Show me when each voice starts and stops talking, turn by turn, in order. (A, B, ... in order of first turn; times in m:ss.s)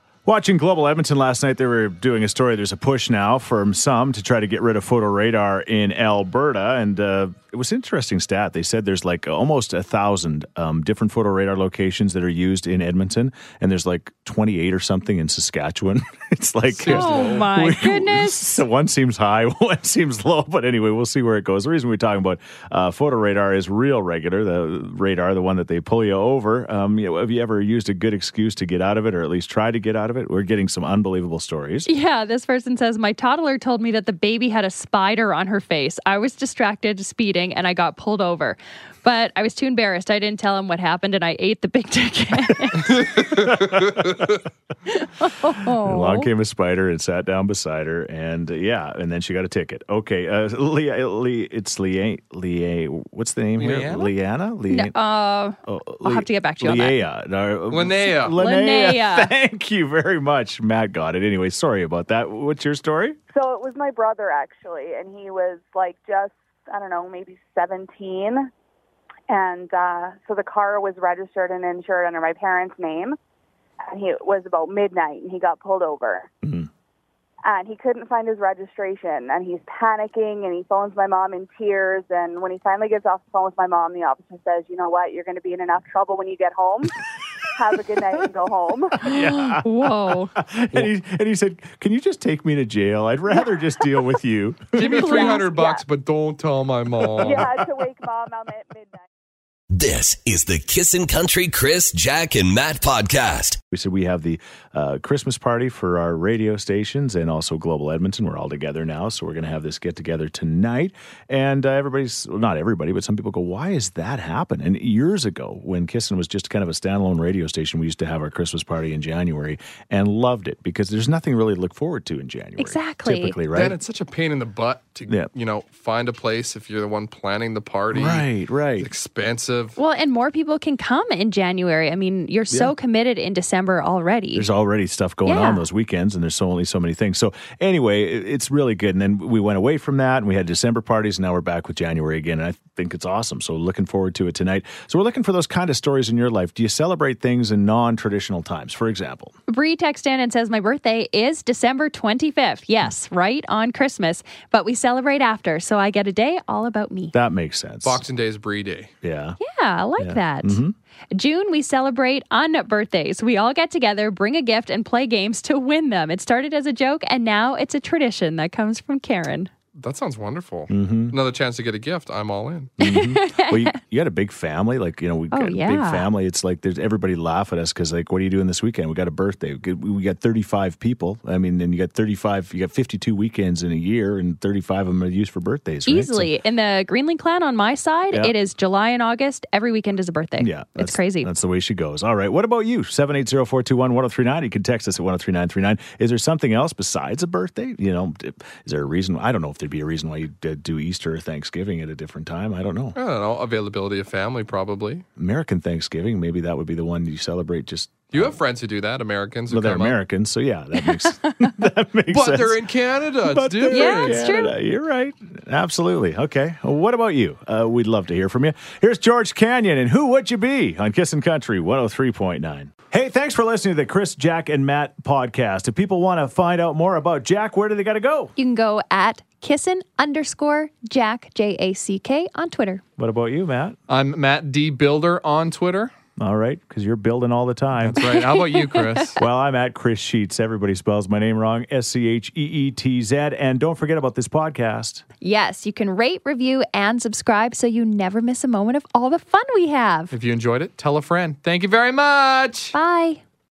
0:00.3-0:31.9 A
0:16.7-0:17.5 B
0:16.9-0:18.5 C
0:31.9-0:43.2 C
0:43.1-0:44.3 A
0:43.2-0:44.2 B
0:44.9-0:46.3 C
0:45.4-0:55.0 A
0:53.6-0:54.1 B
0:54.7-0:57.0 C
0:55.7-1:03.2 A
0:57.7-0:58.4 B
0:58.3-0:59.3 C
1:03.3-1:08.5 D
1:09.3-1:13.2 D
1:13.9-1:16.3 D
1:16.4-1:16.7 A
1:17.4-1:26.9 D
1:27.6-1:29.0 D
1:29.0-1:35.2 A
1:29.0-1:30.4 C
1:34.8-1:37.5 B
1:34.8-1:35.6 C
1:35.3-1:35.8 D
1:37.1-1:37.5 A
1:37.2-1:39.0 D
1:39.7-1:43.6 E
1:43.7-2:03.8 A
2:02.6-2:03.4 C
2:03.5-2:08.3 B
2:07.9-2:08.9 A
2:08.8-2:09.8 B
2:09.8-2:14.5 C
2:14.4-2:29.3 A
2:15.3-2:15.7 C
2:29.5-2:37.2 C
2:37.1-2:38.0 A
2:37.8-2:38.9 B
2:39.0-2:39.4 A
2:39.4-2:40.6 C
2:40.0-2:40.8 A
2:41.1-2:49.5 C
2:49.8-2:52.7 B
2:50.7-2:51.2 A
2:52.8-3:06.3 A
2:52.8-2:53.8 C
2:55.3-2:56.1 C
3:05.9-3:11.3 C
3:10.4-3:23.0 A
3:23.0-3:25.0 B
3:25.2-3:28.4 A
3:28.1-3:30.0 B
3:29.5-3:32.6 A
3:30.9-3:31.3 C
3:32.1-3:34.4 B
3:33.2-3:48.3 A
3:33.7-3:34.5 C
3:48.4-3:52.8 C
3:53.0-3:53.8 A
3:53.9-3:55.9 B
3:56.2-3:58.0 A
3:57.8-3:59.2 B
3:58.0-3:59.1 C
3:59.2-4:05.0 A
4:05.2-4:10.1 C
4:10.1-4:12.8 B
4:12.7-4:13.2 C